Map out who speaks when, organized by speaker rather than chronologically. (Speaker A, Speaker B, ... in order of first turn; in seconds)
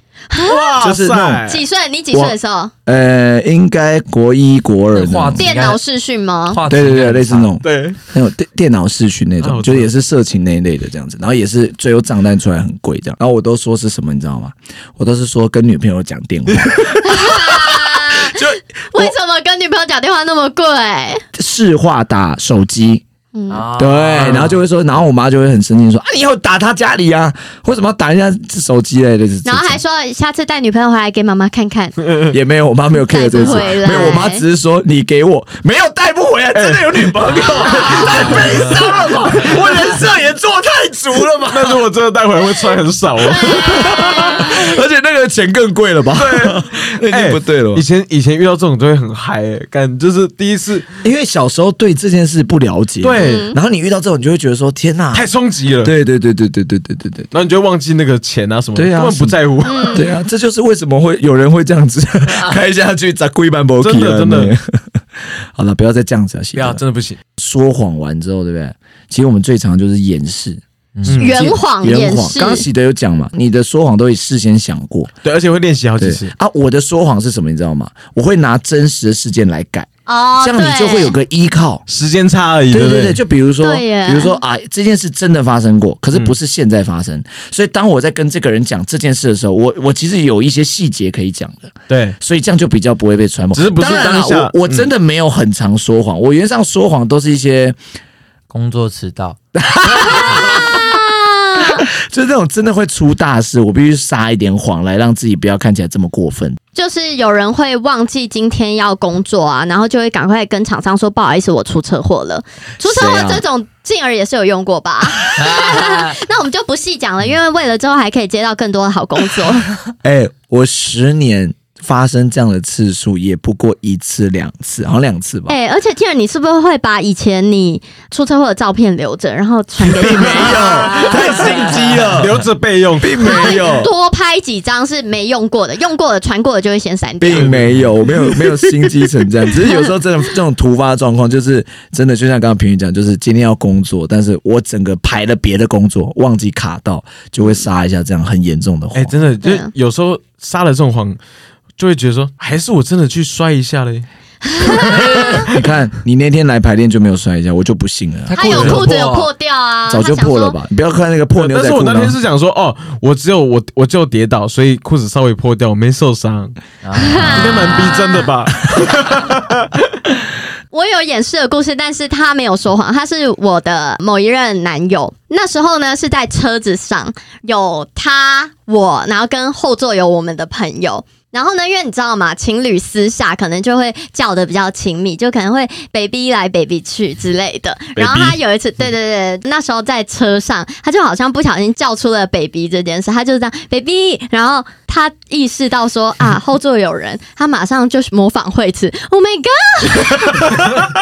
Speaker A: 0.3-0.8, 1.4-2.7, 5.4-6.6, 17.0-21.2, 23.3-23.6, 29.4-31.9, 33.0-34.4, 37.7-38.1, 43.2-44.6, 53.1-53.6, 59.6-60.1, 71.2-72.7, 80.1-81.2, 83.6-84.4, 100.2-101.8, 106.7-119.7, 125.5-131.8, 133.2-137.6, 149.4-149.7, 154.4-155.3, 158.3-160.6, 166.9-168.3, 170.7-200.7
Speaker B: 0.4-1.6, 7.6-8.0, 9.4-9.9, 16.5-17.0, 24.2-24.5, 36.5-37.1, 37.9-40.0, 41.5-44.5, 46.1-50.9, 53.0-53.5, 55.1-55.9, 57.3-60.0, 63.8-64.5, 66.5-67.2, 71.0-71.4, 75.2-76.3, 81.9-83.2, 91.9-92.2, 93.5-94.9, 130.3-133.6, 137.3-139.1, 148.9-151.2, 151.8-154.1, 154.6-155.6, 158.5-158.8, 161.3-166.6, 167.2-169.8, 187.9-188.4
Speaker C: 0.8-1.4, 2.1-5.4, 6.7-19.1, 21.3-23.0, 23.8-29.8, 32.3-41.9, 43.4-47.8, 51.0-55.3, 55.8-57.3, 58.7-59.4, 59.9-66.8, 67.4-70.6, 71.2-75.1, 76.0-79.9, 80.4-81.8, 82.7-97.8, 99.5-101.0, 101.6-106.6, 112.8-113.4, 120.0-125.5, 129.8-132.4, 133.0-133.9, 137.2-149.2, 155.4-158.8, 159.9-162.2
Speaker D: 4.9-5.8, 6.5-7.5, 23.5-24.6, 37.9-38.5, 71.0-71.3, 98.5-99.4, 115.3-116.2, 154.9-155.4, 158.3-159.3, 166.8-167.9